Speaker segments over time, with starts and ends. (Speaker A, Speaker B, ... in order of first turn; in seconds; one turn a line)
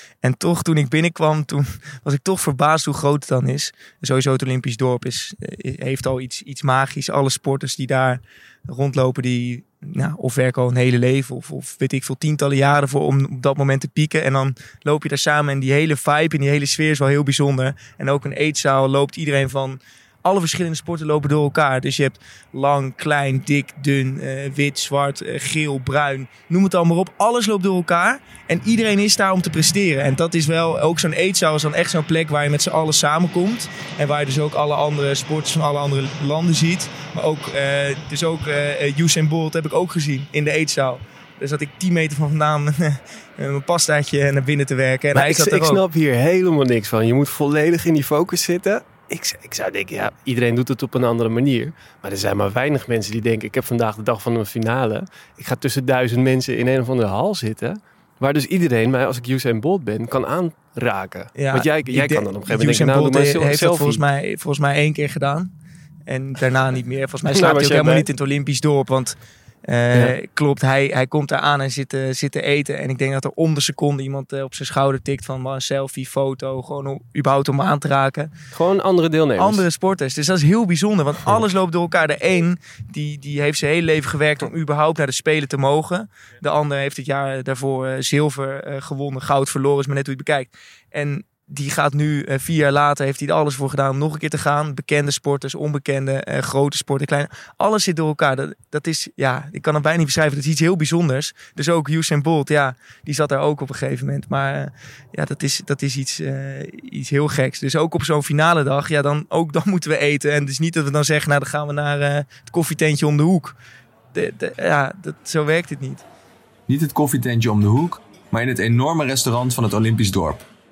Speaker A: 0.2-45.8
Speaker B: 45.1-64.0
Speaker A: 61.3-65.5
Speaker A: 66.1-78.3
Speaker B: 67.3-68.1
Speaker B: 78.5-79.6
Speaker A: 79.4-113.5
Speaker A: 114.1-116.0
Speaker C: 116.7-120.4